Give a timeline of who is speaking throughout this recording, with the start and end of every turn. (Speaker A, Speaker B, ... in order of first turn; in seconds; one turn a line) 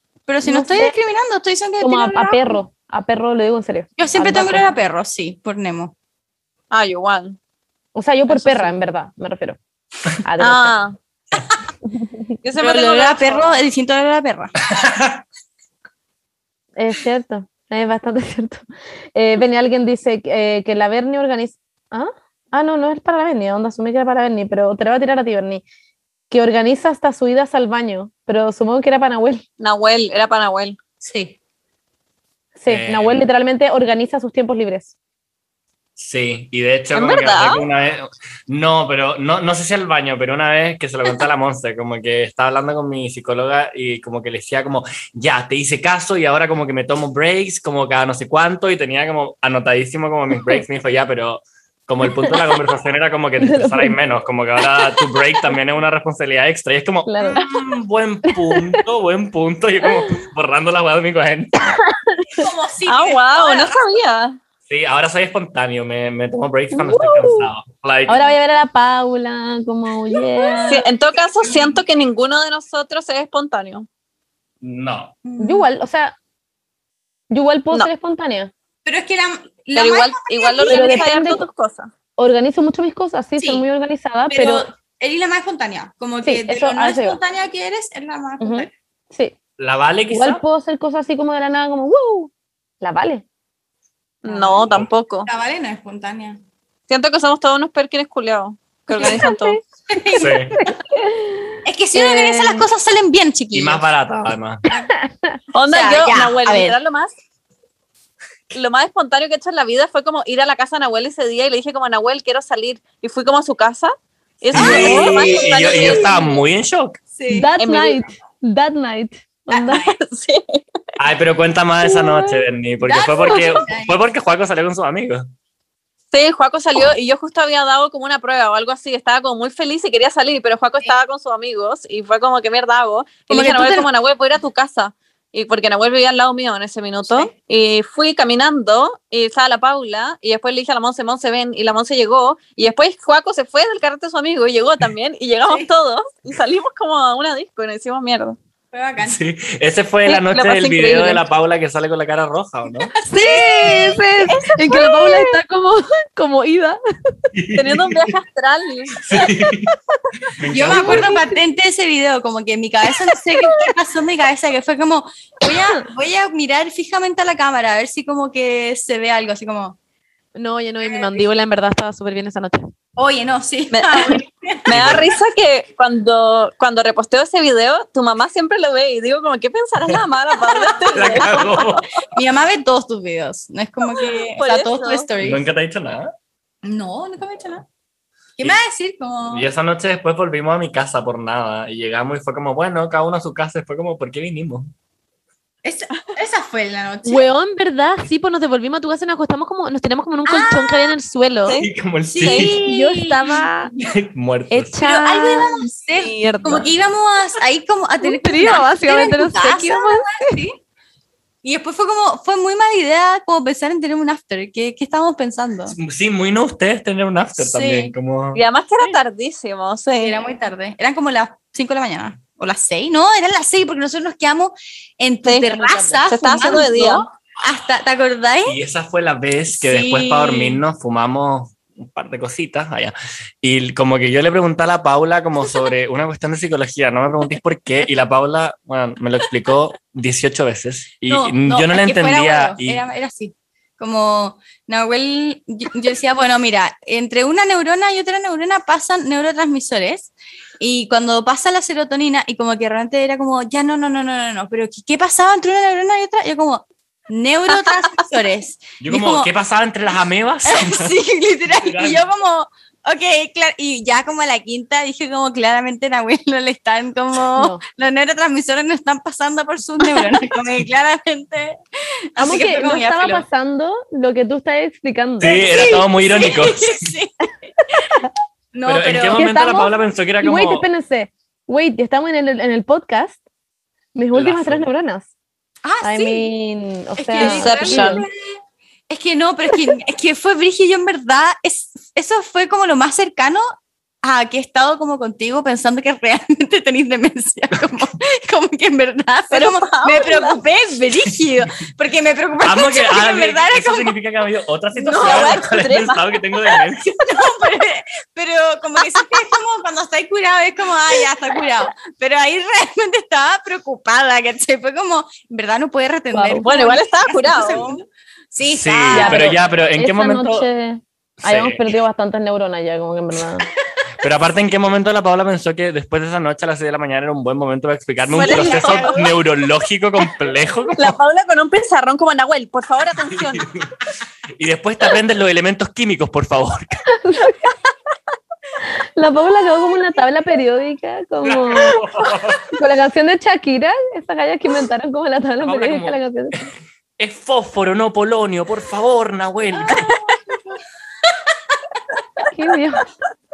Speaker A: 0.3-2.6
Speaker B: 0.4-0.9
Speaker B: 1.8-4.7
Speaker A: 4.0-5.9
Speaker C: 6.7-7.4
Speaker B: 8.0-9.6
Speaker A: 8.3-8.7
Speaker B: 10.2-10.8
Speaker C: 10.4-11.0
Speaker C: 12.4-13.6
Speaker A: 12.6-14.5
Speaker D: 14.7-15.2
Speaker B: 16.8-18.6
Speaker B: 19.1-25.6
Speaker B: 26.3-29.4
Speaker C: 29.6-30.8
Speaker A: 31.0-31.3
Speaker B: 32.6-34.9
Speaker D: 32.7-33.2
Speaker D: 36.0-61.8
Speaker C: 36.9-37.6
Speaker B: 52.0-52.3
Speaker B: 53.4-54.0
Speaker B: 57.1-57.4
Speaker B: 58.2-58.8
Speaker B: 61.8-62.5
Speaker A: 62.4-63.8
Speaker C: 62.9-64.4
Speaker D: 64.7-68.2
Speaker B: 66.7-67.5
Speaker B: 68.1-70.9
Speaker A: 70.4-71.8
Speaker C: 70.7-73.9
Speaker D: 74.6-75.2
Speaker A: 75.2-75.7
Speaker B: 75.4-76.2
Speaker B: 77.3-78.5
Speaker A: 78.8-81.1
Speaker C: 79.8-81.9
Speaker B: 80.7-81.5
Speaker B: 82.2-84.7
Speaker A: 83.4-83.7
Speaker A: 84.3-88.7
Speaker B: 86.2-87.2
Speaker B: 88.4-89.3
Speaker D: 89.6-90.4
Speaker B: 90.1-93.2
Speaker C: 94.2-95.3
Speaker B: 94.3-94.6
Speaker A: 95.3-96.4
Speaker C: 96.9-99.6
Speaker B: 98.9-99.6
Speaker A: 99.0-99.2
Speaker A: 99.9-100.5
Speaker D: 100.2-100.6
Speaker B: 100.6-102.7
Speaker A: 101.7-103.9
Speaker D: 103.5-104.6
Speaker B: 104.9-105.4
Speaker C: 105.5-107.1
Speaker A: 105.7-106.8
Speaker C: 108.5-116.4
Speaker D: 114.5-117.0
Speaker A: 114.5-116.0
Speaker A: 117.2-117.5
Speaker B: 117.3-119.8
Speaker C: 117.6-118.0
Speaker A: 119.5-120.0
Speaker C: 119.7-120.6
Speaker D: 121.0-125.2
Speaker B: 121.8-122.5
Speaker A: 122.8-124.0
Speaker C: 126.1-148.4
Speaker A: 133.3-133.9
Speaker A: 148.7-149.2
Speaker D: 149.0-152.9
Speaker C: 150.1-151.2
Speaker A: 153.0-155.2
Speaker B: 153.1-156.8
Speaker D: 157.3-158.1
Speaker C: 157.5-159.0
Speaker D: 159.0-159.7
Speaker D: 160.3-161.1
Speaker A: 160.5-169.8
Speaker B: 160.7-161.4
Speaker B: 170.4-172.6
Speaker A: 173.0-174.7
Speaker C: 173.7-181.8
Speaker D: 174.7-175.1
Speaker A: 180.6-181.5
Speaker D: 180.9-181.9
Speaker A: 182.1-185.4
Speaker C: 184.0-185.1
Speaker D: 185.2-186.1
Speaker A: 186.6-187.7
Speaker A: 188.4-189.5
Speaker D: 189.3-194.7
Speaker A: 195.6-197.3
Speaker B: 197.1-201.6
Speaker A: 200.3-200.9
Speaker D: 201.6-202.6
Speaker A: 202.1-203.5
Speaker C: 202.2-202.5
Speaker B: 202.6-203.7
Speaker D: 203.8-204.8
Speaker B: 204.5-206.7
Speaker A: 204.8-210.6
Speaker B: 208.0-210.3
Speaker A: 211.4-215.8
Speaker D: 215.7-218.4
Speaker A: 217.4-217.9
Speaker C: 218.3-220.2
Speaker A: 220.0-228.6
Speaker C: 225.2-225.5
Speaker B: 225.5-226.1
Speaker C: 226.1-227.1
Speaker D: 228.5-242.8
Speaker A: 229.5-230.6
Speaker A: 241.1-259.3
Speaker D: 258.8-260.9
Speaker A: 260.4-271.6
Speaker D: 261.6-262.1
Speaker B: 267.4-267.6
Speaker A: 272.1-273.3
Speaker B: 272.2-275.6
Speaker D: 275.2-276.8
Speaker A: 275.2-277.9
Speaker A: 278.5-279.3
Speaker D: 278.7-280.7
Speaker B: 279.1-283.2
Speaker B: 283.9-285.1
Speaker D: 284.1-284.7
Speaker A: 285.6-286.3
Speaker B: 285.8-288.0
Speaker A: 287.0-288.1
Speaker C: 287.2-288.0
Speaker A: 288.9-293.5
Speaker A: 294.0-304.0
Speaker C: 299.3-300.4
Speaker D: 302.4-307.0
Speaker A: 304.8-305.5
Speaker C: 304.9-306.6
Speaker A: 306.9-319.4
Speaker B: 316.1-316.5
Speaker C: 316.4-317.7
Speaker D: 318.5-320.5
Speaker B: 318.9-323.5
Speaker D: 321.2-321.7
Speaker D: 324.0-331.0
Speaker C: 328.1-329.1
Speaker A: 328.3-328.7
Speaker B: 328.4-329.0
Speaker C: 330.8-333.5
Speaker D: 333.1-333.7
Speaker D: 334.4-336.9
Speaker B: 337.0-337.4
Speaker B: 338.6-341.8
Speaker D: 341.2-342.5
Speaker B: 342.5-346.5
Speaker D: 345.4-346.5
Speaker D: 347.0-349.9
Speaker A: 349.8-350.4
Speaker B: 352.3-352.9